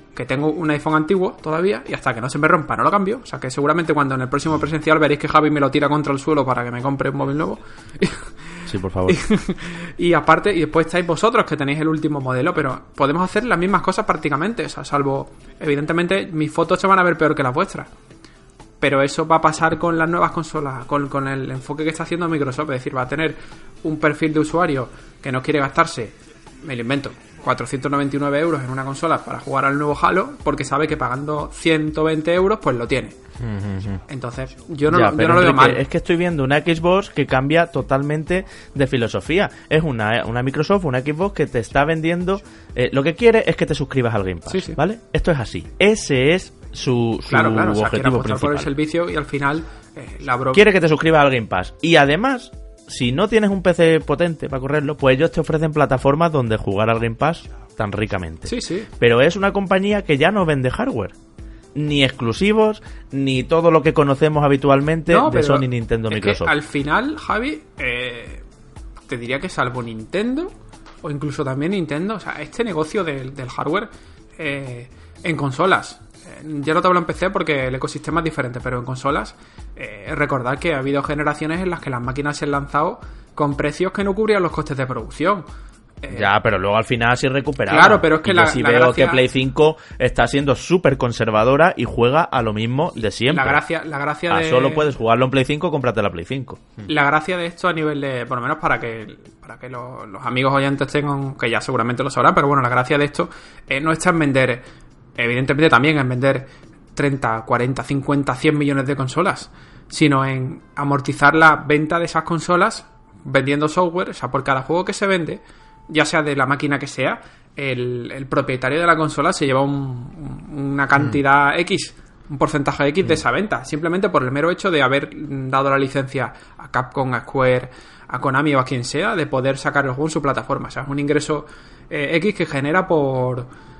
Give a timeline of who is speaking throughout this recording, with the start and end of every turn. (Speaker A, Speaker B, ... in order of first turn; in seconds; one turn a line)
Speaker A: 0.1-17.9
Speaker B: 8.7-9.2
Speaker A: 18.8-33.2
Speaker B: 33.4-34.0
Speaker A: 34.1-35.9
Speaker B: 34.9-48.7
Speaker A: 44.5-44.8
Speaker A: 47.3-50.7
Speaker B: 50.5-61.2
Speaker A: 58.5-58.9
Speaker B: 61.8-66.5
Speaker A: 65.1-68.4
Speaker A: 69.1-85.5
Speaker A: 86.0-86.3
Speaker B: 86.1-93.6
Speaker A: 87.7-89.2
Speaker A: 93.3-94.9
Speaker B: 94.3-96.9
Speaker A: 96.9-104.7
Speaker A: 105.2-133.5